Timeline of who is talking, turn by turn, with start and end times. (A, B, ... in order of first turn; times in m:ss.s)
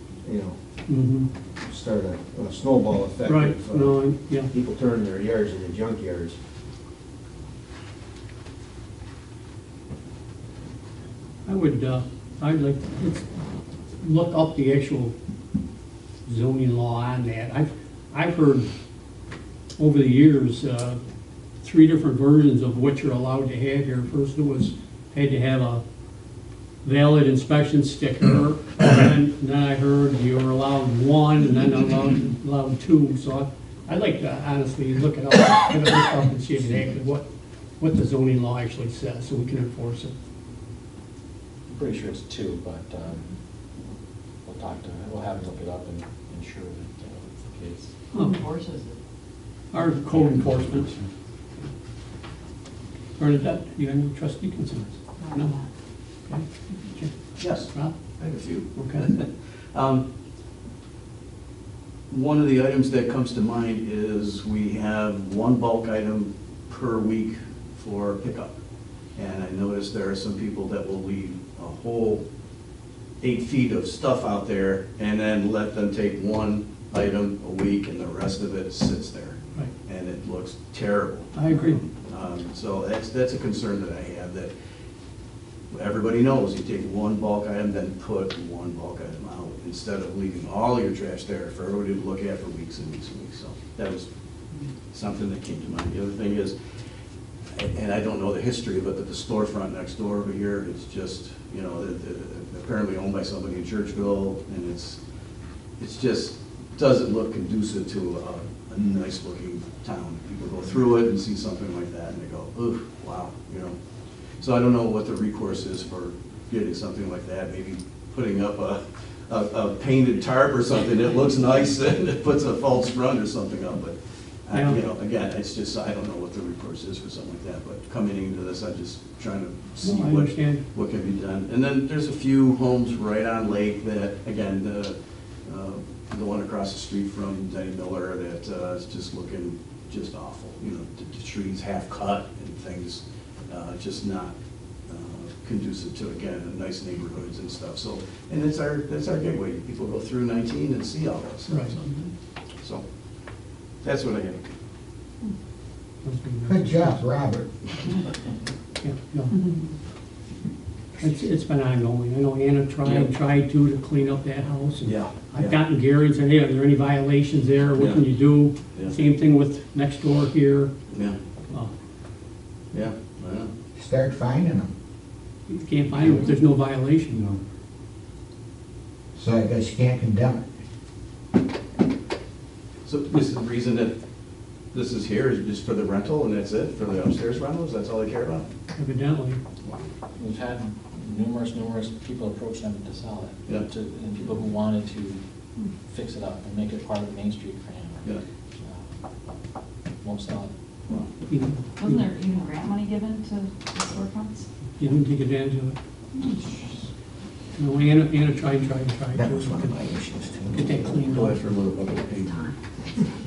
0:00.2-0:00.6 A
0:00.9-0:01.3 B
0:01.6-0:04.0 A
0:03.2-0:04.5 B
0:04.5-0:06.4 A
0:11.5-0:13.2 B
0:14.0-0:15.1 B
0:16.3-0:18.7 B
0:19.8-0:21.0 B
0:21.6-0:25.8 B
0:26.8-0:37.2 B
0:37.8-0:40.1 B
0:41.7-0:43.3 C
0:44.4-0:48.0 C
0:48.1-0:48.4 B
0:48.1-0:49.0 D
0:49.7-0:50.9 B
0:49.9-0:51.1 C
0:53.2-0:55.6 B
0:55.2-0:55.7 D
0:56.3-0:58.0 B
0:57.4-1:00.0 E
0:58.8-0:59.0 B
1:02.1-1:08.5 E
1:09.2-1:12.2 E
1:13.2-1:24.5 E
1:21.4-1:21.8 B
1:25.7-1:34.1 E
1:34.9-1:36.6 E
1:37.6-1:45.0 E
1:45.8-1:53.8 E
1:54.4-2:15.0 E
2:04.5-2:04.8 B
2:09.8-2:10.6 B
2:15.5-2:24.3 E
2:24.9-2:32.1 E
2:31.5-2:32.1 B
2:33.8-2:34.4 E
2:36.0-2:37.0 B
2:36.5-2:37.5 F
2:38.8-2:39.4 B
2:39.3-2:39.7 D
2:41.0-2:50.7 B
2:44.8-2:45.6 E
2:47.8-2:48.1 E
2:50.9-2:51.2 E
2:52.7-2:53.5 E
2:53.8-2:54.7 F
2:55.5-2:57.3 B
2:59.2-3:00.4 F
3:02.9-3:04.0 E
3:04.7-3:08.5 E
3:08.8-3:09.4 B
3:09.6-3:09.9 E
3:10.2-3:15.2 C
3:15.8-3:19.0 C
3:20.0-3:20.5 C
3:21.3-3:22.1 B
3:21.8-3:24.5 D
3:24.8-3:25.8 B
3:26.1-3:26.6 D
3:27.6-3:29.8 B
3:29.1-3:30.8 F
3:30.5-3:31.4 B
3:31.1-3:32.6 E
3:32.1-3:32.5 D